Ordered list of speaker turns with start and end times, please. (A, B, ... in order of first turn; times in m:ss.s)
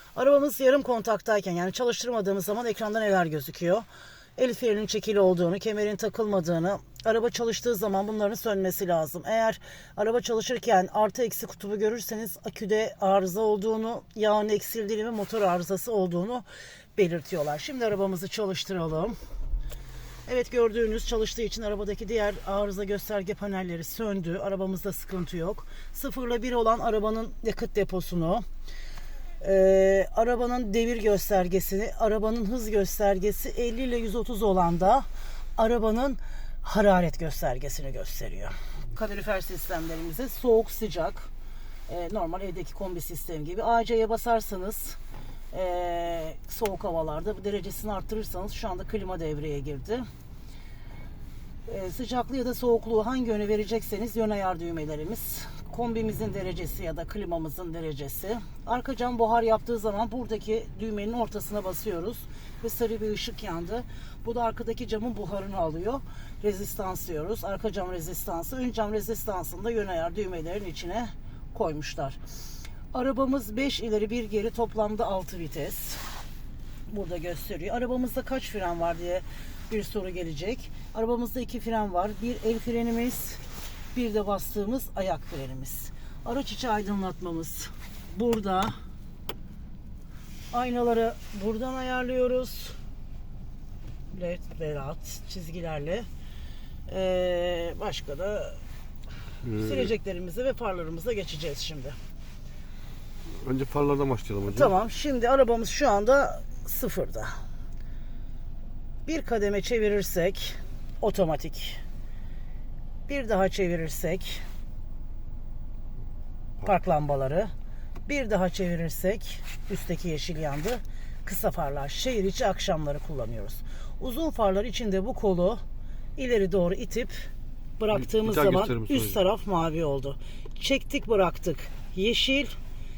0:00.1-0:03.8 A
0:04.4-0:16.4 A
0:17.0-0:19.2 A
0:20.3-0:28.4 A
0:29.4-0:35.0 A
0:35.6-0:41.3 A
0:41.9-0:45.0 A
0:45.5-0:50.0 A
0:51.6-1:12.2 A
1:12.9-1:16.0 A
1:16.9-1:23.4 A
1:23.9-1:28.7 A
1:30.5-1:32.8 A
1:34.1-1:36.1 A
1:36.9-1:38.6 A
1:39.4-1:39.8 B
1:39.4-1:42.0 A
1:43.4-1:44.7 B
1:44.5-1:47.3 A
1:49.0-1:51.8 A
1:53.1-1:54.4 A
1:56.6-1:57.5 A
1:58.1-2:05.6 A
2:06.2-2:07.3 A
2:07.8-2:12.6 A
2:08.1-2:09.2 B